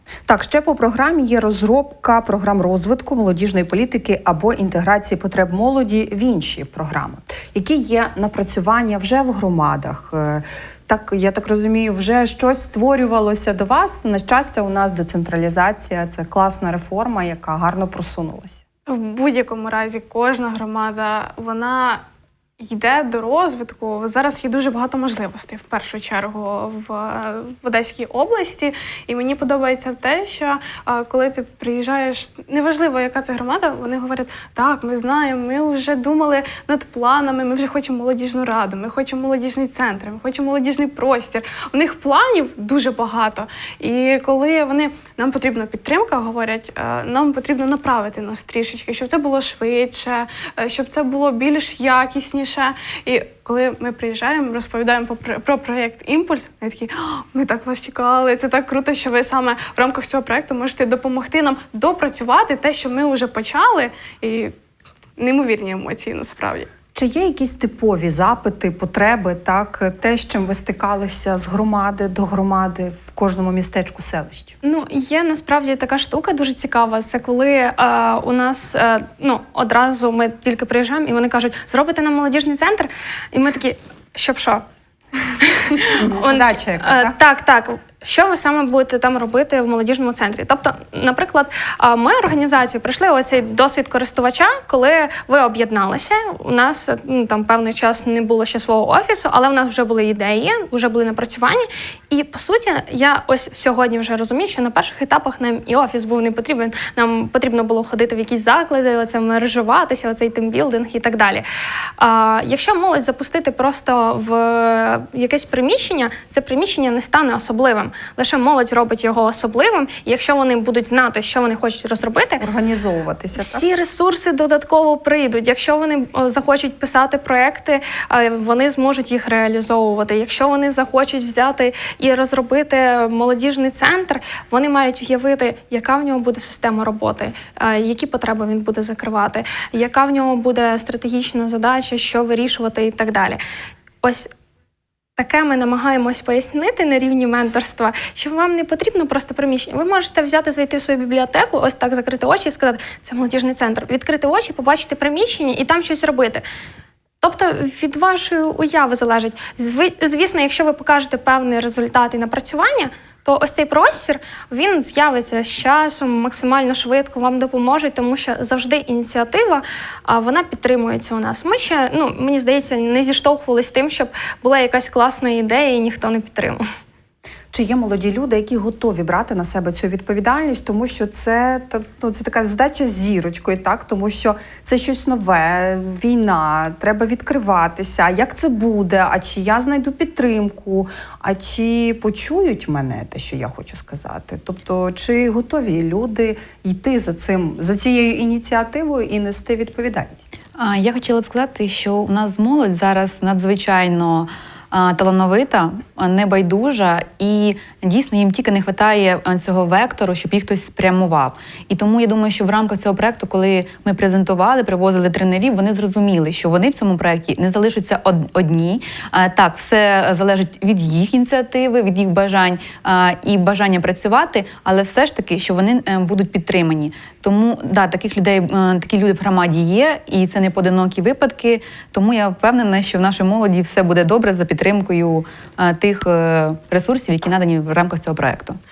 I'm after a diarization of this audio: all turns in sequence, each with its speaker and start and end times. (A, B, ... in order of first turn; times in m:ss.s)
0:00.3-0:18.6 A
0:18.9-0:22.0 B
0:22.6-1:04.5 B
1:05.2-1:06.7 B
1:06.9-1:14.5 A
1:14.6-1:24.6 C
1:25.4-1:51.4 C
1:25.9-1:27.2 A
1:52.0-2:02.4 C
2:02.4-2:03.6 A
2:03.4-2:23.4 C
2:24.0-2:24.3 C
2:25.2-2:36.4 C
2:37.2-2:56.6 C
2:57.5-3:20.2 A
3:20.6-3:58.6 D